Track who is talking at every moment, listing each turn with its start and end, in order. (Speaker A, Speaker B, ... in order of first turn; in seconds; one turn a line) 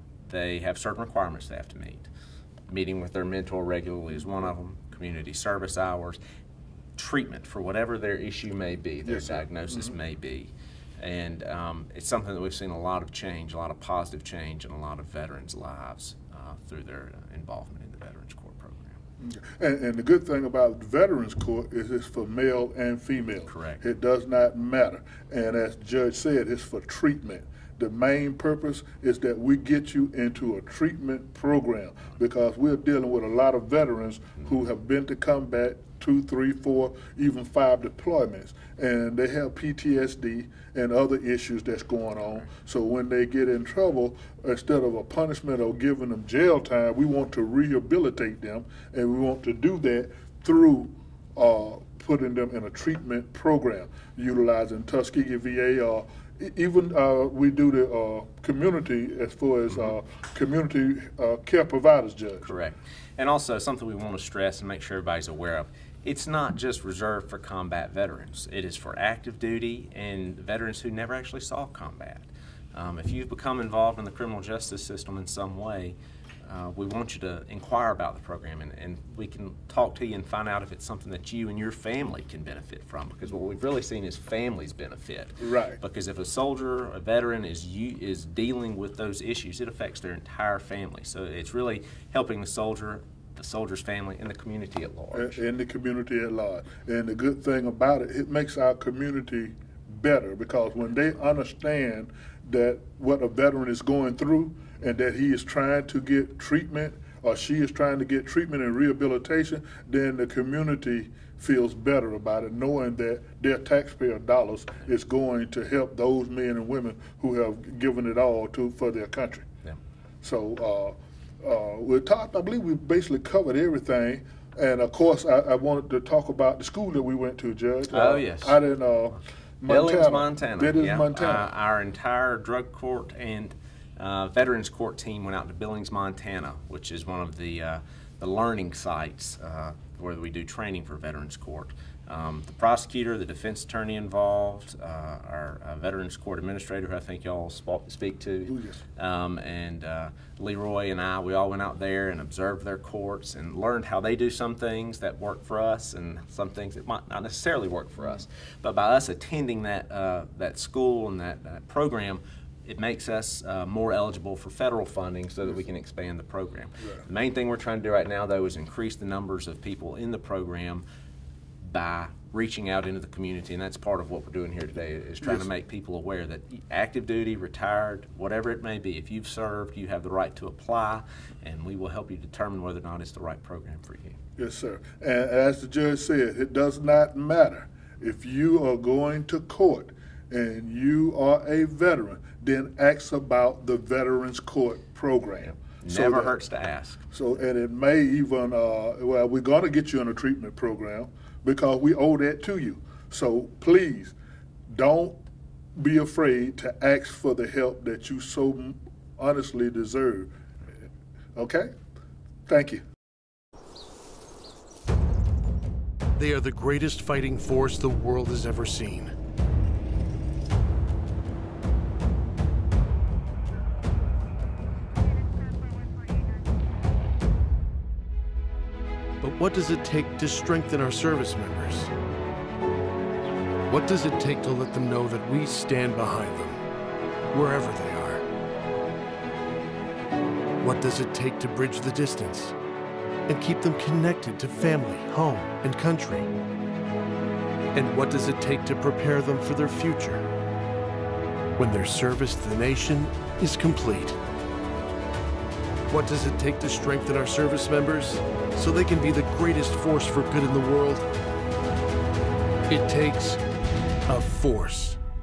Speaker A: 0.2-2.1
Speaker A: 2.7-6.2
Speaker A: 7.0-19.0
Speaker B: 9.1-10.0
Speaker B: 19.2-62.5
Speaker A: 23.5-23.8
Speaker A: 62.4-95.4
Speaker B: 85.4-85.8
Speaker B: 95.1-119.5
Speaker B: 120.2-131.5
Speaker A: 127.9-128.6
Speaker A: 129.7-170.8
Speaker B: 148.4-148.8
Speaker A: 171.6-184.2
Speaker B: 184.4-196.4
Speaker A: 195.4-197.1
Speaker B: 197.1-204.1
Speaker B: 204.7-205.2
Speaker B: 205.8-210.3
Speaker B: 211.4-211.7
Speaker B: 212.5-212.8
Speaker C: 216.2-219.1
Speaker C: 229.2-231.9
Speaker C: 233.7-236.6
Speaker C: 237.3-238.3
Speaker C: 240.6-242.6
Speaker C: 243.3-246.3
Speaker C: 247.7-250.3
Speaker C: 251.6-254.2
Speaker C: 255.9-261.1
Speaker C: 262.7-263.4
Speaker C: 264.1-265.0